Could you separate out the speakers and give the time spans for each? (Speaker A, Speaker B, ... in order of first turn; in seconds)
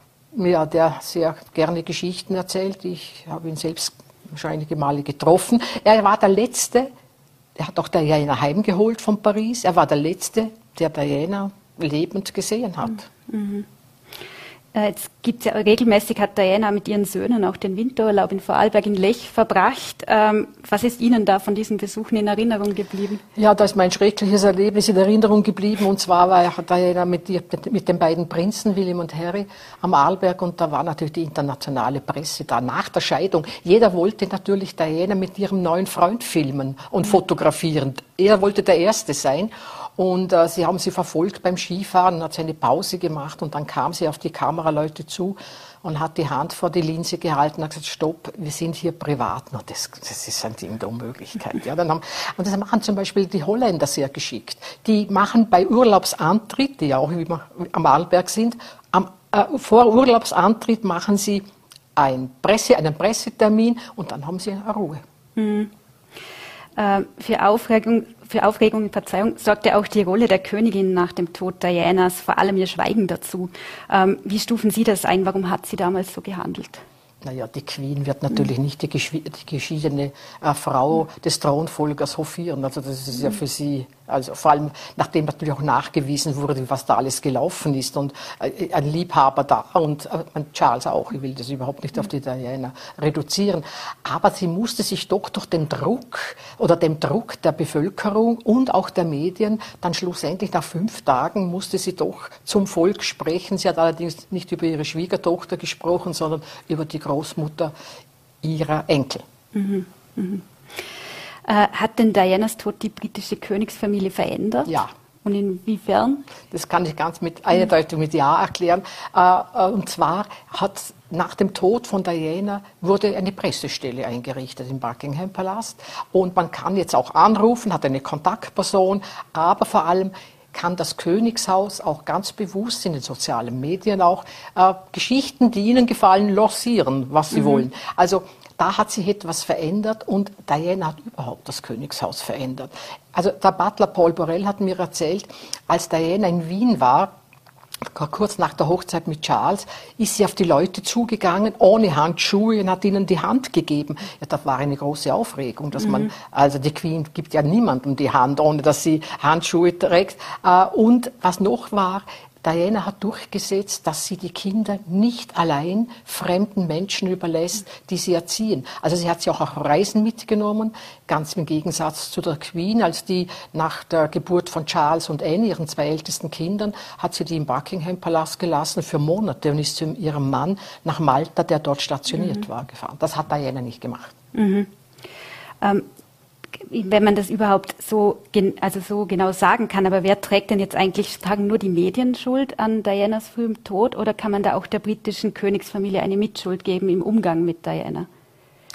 Speaker A: 0.3-6.9, 7.6-13.0, 23.4-61.4, 62.0-65.0, 77.2-107.7, 108.4-109.2, 116.5-147.1, 147.8-184.1
Speaker B: 13.3-13.7, 14.7-23.2, 65.3-65.7, 66.8-76.8, 109.5-110.4, 111.4-116.2, 184.3-184.7, 186.6-198.1